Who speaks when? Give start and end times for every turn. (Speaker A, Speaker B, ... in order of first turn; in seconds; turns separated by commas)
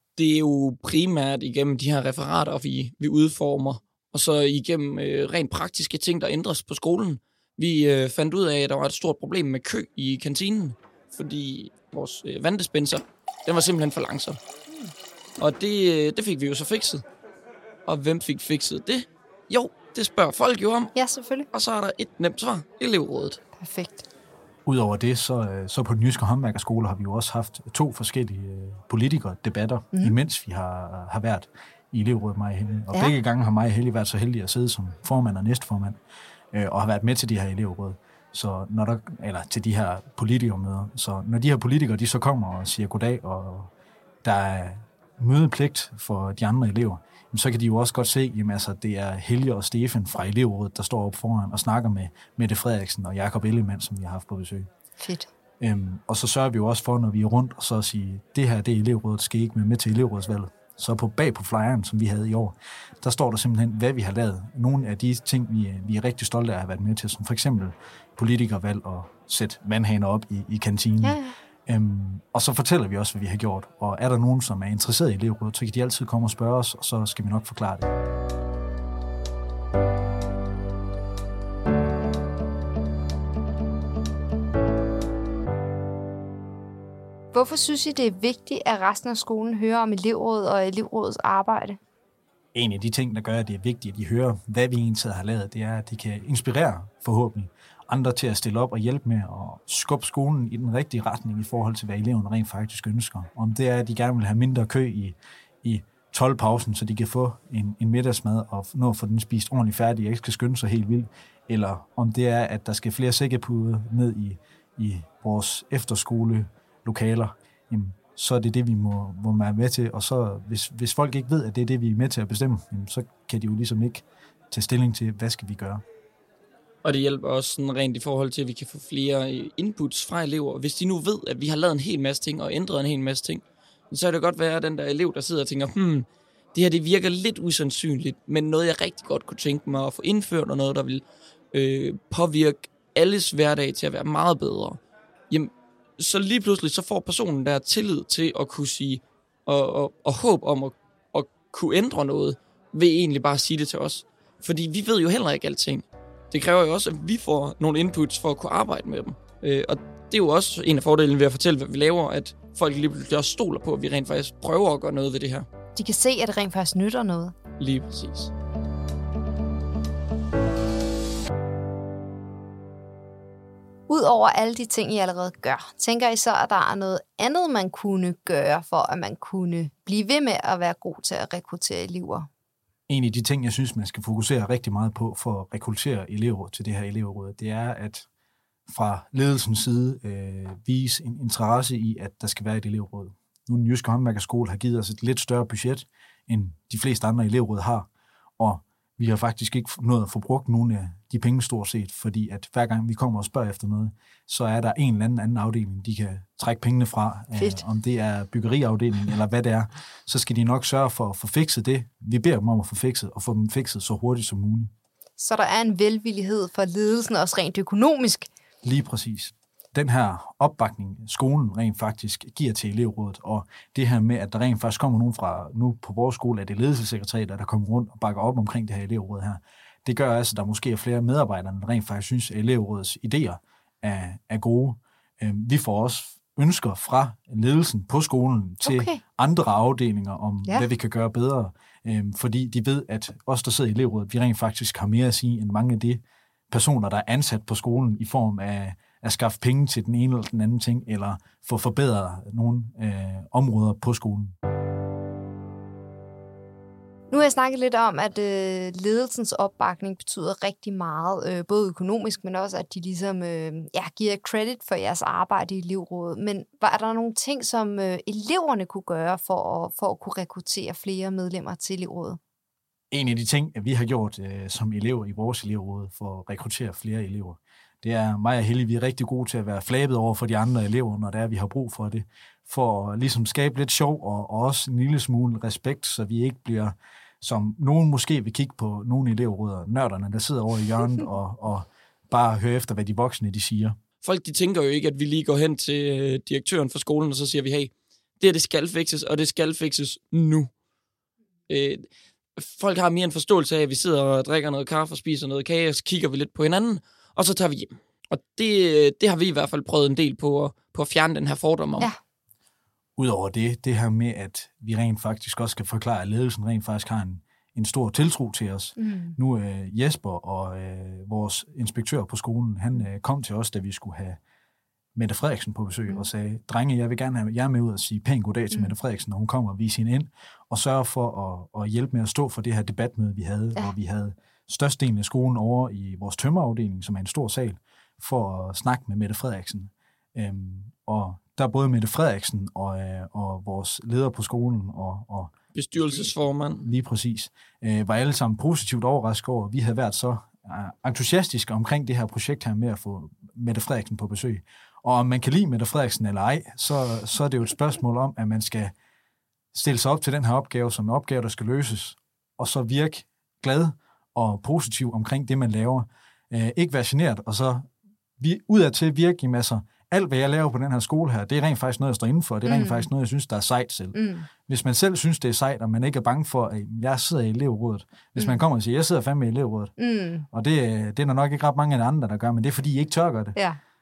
Speaker A: 0.2-14.4, Speaker A: 15.4-17.0, Speaker A: 17.9-20.9, Speaker B: 20.9-21.5, Speaker A: 21.5-23.4, Speaker B: 23.6-24.0, Speaker C: 24.6-36.0, Speaker C: 36.5-43.7, Speaker C: 44.2-54.7, Speaker B: 55.0-55.3, Speaker C: 55.6-77.9, Speaker B: 71.0-71.3, Speaker B: 87.3-91.8, Speaker C: 92.5-125.8, Speaker A: 126.8-144.8, Speaker A: 145.3-165.5, Speaker B: 165.7-167.3, Speaker A: 167.6-168.3, Speaker B: 173.9-182.3, Speaker C: 182.9-188.1, Speaker C: 188.7-197.9, Speaker C: 198.4-214.7, Speaker B: 207.3-207.6, Speaker B: 215.2-218.3, Speaker C: 218.6-254.3, Speaker B: 238.6-239.0, Speaker B: 257.1-272.2, Speaker C: 272.9-293.8, Speaker A: 294.0-300.5, Speaker A: 301.5-301.9, Speaker A: 302.4-311.9, Speaker C: 313.0-324.2, Speaker B: 318.8-319.1, Speaker C: 324.9-358.7, Speaker A: 345.5-346.6, Speaker C: 359.5-367.7, Speaker C: 368.2-379.7, Speaker B: 372.4-372.9, Speaker B: 373.9-374.3, Speaker B: 379.8-380.2, Speaker C: 380.3-383.4